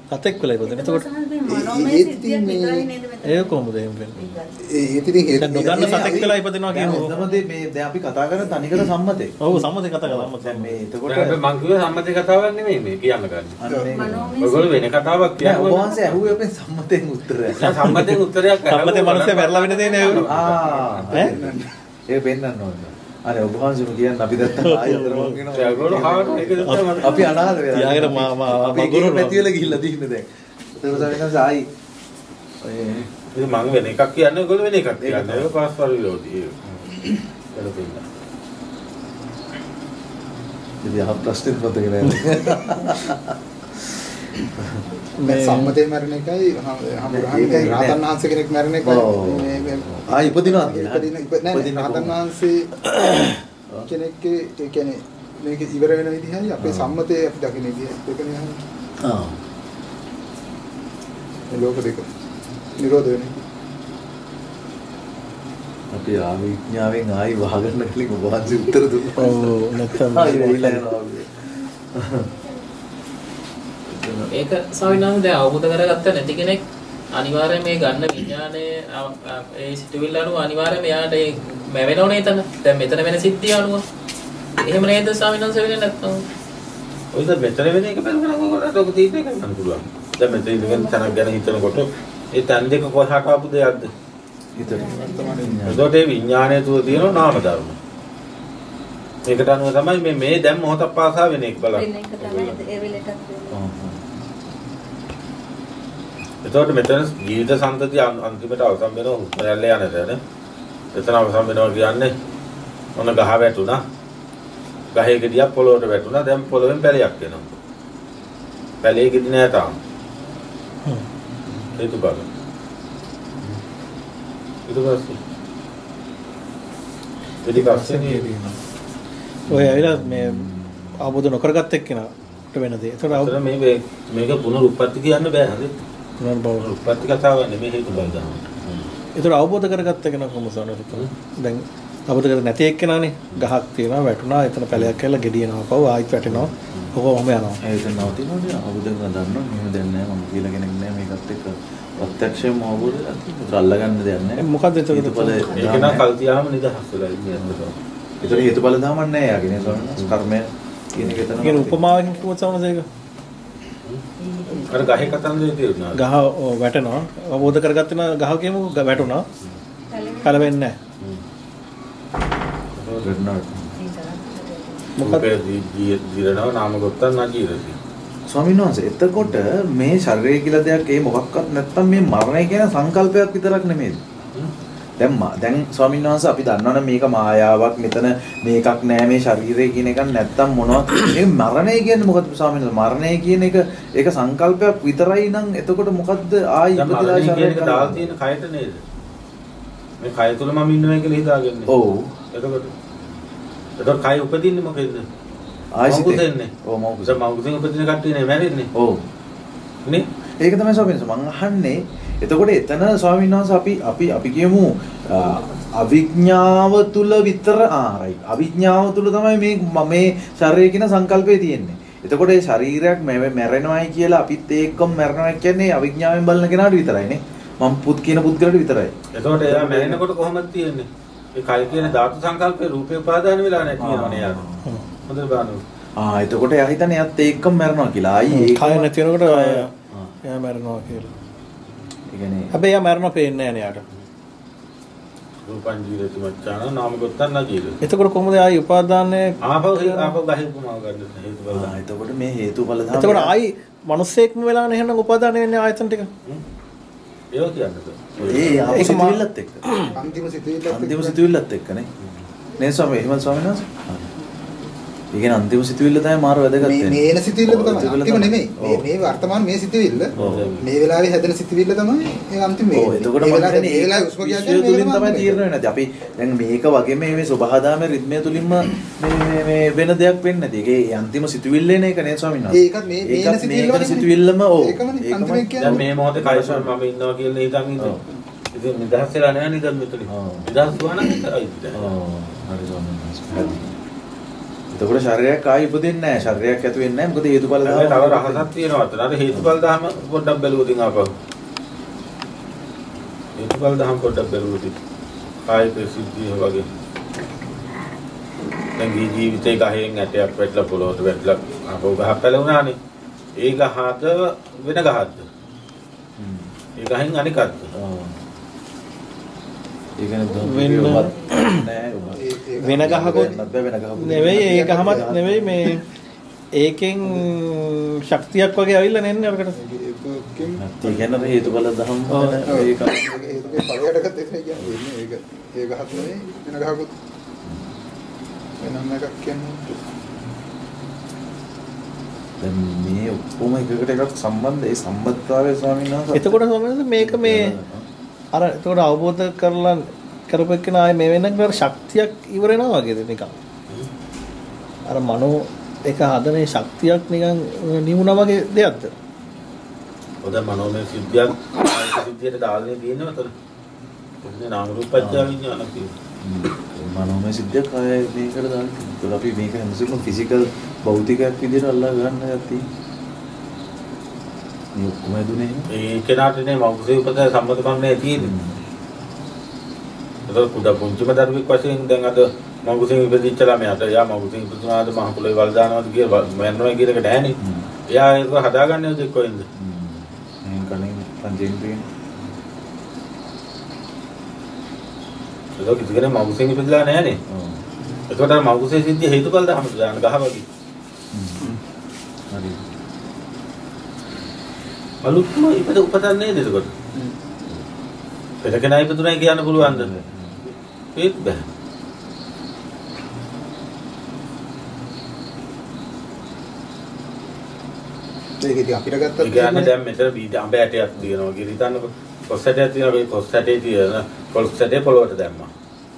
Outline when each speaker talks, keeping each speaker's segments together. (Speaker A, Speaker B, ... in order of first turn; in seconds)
Speaker A: 0.1-1.0, 3.2-4.2, 5.4-7.1, 9.4-10.8, 17.6-20.4, 24.4-25.4, 26.6-29.6, 45.2-45.8, 69.2-70.9, 127.5-128.6, 129.5-133.4, 136.2-136.7, 139.2-147.6, 154.4-155.8, 161.4-162.8, 165.9-169.2, 170.2-170.8, 175.0-175.3, 238.3-239.7, 240.3-241.1, 242.5-243.8, 247.8-250.1, 252.9-256.1, 258.4-260.0, 320.4-321.6, 322.6-323.3, 324.0-325.8, 326.6-329.6, 332.1-332.4, 346.1-347.6, 348.3-353.3, 354.9-358.9
Speaker B: 0.6-4.8, 6.9-7.4, 13.9-14.9, 90.3-91.2, 94.6-95.5, 101.7-103.6, 164.2-165.3, 169.9-170.5, 173.8-175.0
Speaker C: 1.5-2.9, 4.6-6.3, 21.1-21.7, 45.2-52.7, 53.9-58.6, 61.5-62.1, 62.8-63.4, 94.7-95.7, 259.9-261.2, 266.6-275.4, 282.5-285.8, 322.1-323.3, 324.3-325.1, 329.5-331.4, 332.5-336.9, 338.6-339.8, 418.4-419.7
Speaker D: 5.7-11.4, 13.6-14.4, 15.4-17.9, 20.2-31.7, 32.6-33.1, 35.0-35.5, 40.8-44.0, 44.5-44.8, 47.1-48.0, 48.8-52.2, 56.6-57.0, 59.0-59.4, 65.9-71.4, 71.9-72.3, 73.9-74.3, 94.5-95.8, 103.5-104.1, 129.5-131.0, 137.9-138.8, 146.2-146.9, 147.6-156.1, 158.2-161.8, 173.0-173.7, 178.3-184.0, 185.0-198.1, 201.7-202.1, 205.7-207.2, 208.7-209.0, 210.4-228.9, 229.5-230.0, 231.7-232.0, 233.8-235.1, 236.0-240.2, 242.1-242.6, 251.5-253.3, 258.2-259.7, 260.7-261.9, 262.6-264.1, 265.1-268.9, 270.1-270.5, 272.7-286.7, 290.1-290.5, 291.7-293.7, 294.7-298.5, 316.2-316.5, 317.7-318.2, 320.0-325.7, 330.6-333.1, 337.4-337.7, 342.4-346.4, 347.0-347.9, 365.0-365.4, 366.2-372.7, 374.7-375.7, 378.2-378.6, 387.4-387.7, 389.6-391.8, 397.3-397.6, 401.1-401.6, 402.3-402.6, 409.6-410.4
Speaker E: 11.1-13.6, 14.4-16.3, 17.6-21.1, 25.5-27.4, 33.3-36.8, 37.5-38.0, 87.1-93.9, 95.7-97.8, 99.2-102.6, 106.4-110.2, 110.9-112.1, 112.9-113.8, 114.9-117.5, 118.8-119.8, 121.6-122.3, 124.7-125.2, 127.4-128.3, 133.1-135.7, 136.6-138.7, 155.5-158.5, 159.5-160.2, 164.7-166.0, 172.7-173.1, 175.0-177.8, 196.7-198.8, 200.0-201.7, 202.3-202.7, 203.8-205.1, 205.9-206.5, 207.0-208.7, 229.1-234.4, 235.1-235.6, 245.4-247.8, 249.4-251.7, 257.3-258.9, 270.1-270.7, 285.6-288.0, 288.5-291.9, 297.6-301.1, 303.4-304.7, 305.4-306.6, 308.8-312.8, 313.4-315.3, 316.8-317.7, 360.2-363.3, 364.2-365.9, 375.7-378.3, 380.3-387.4, 387.9-389.4, 395.6-397.2, 398.1-400.4, 405.0-406.7, 408.4-409.9, 410.9-411.5, 419.2-425.5
Speaker F: 74.3-83.8, 84.6-86.2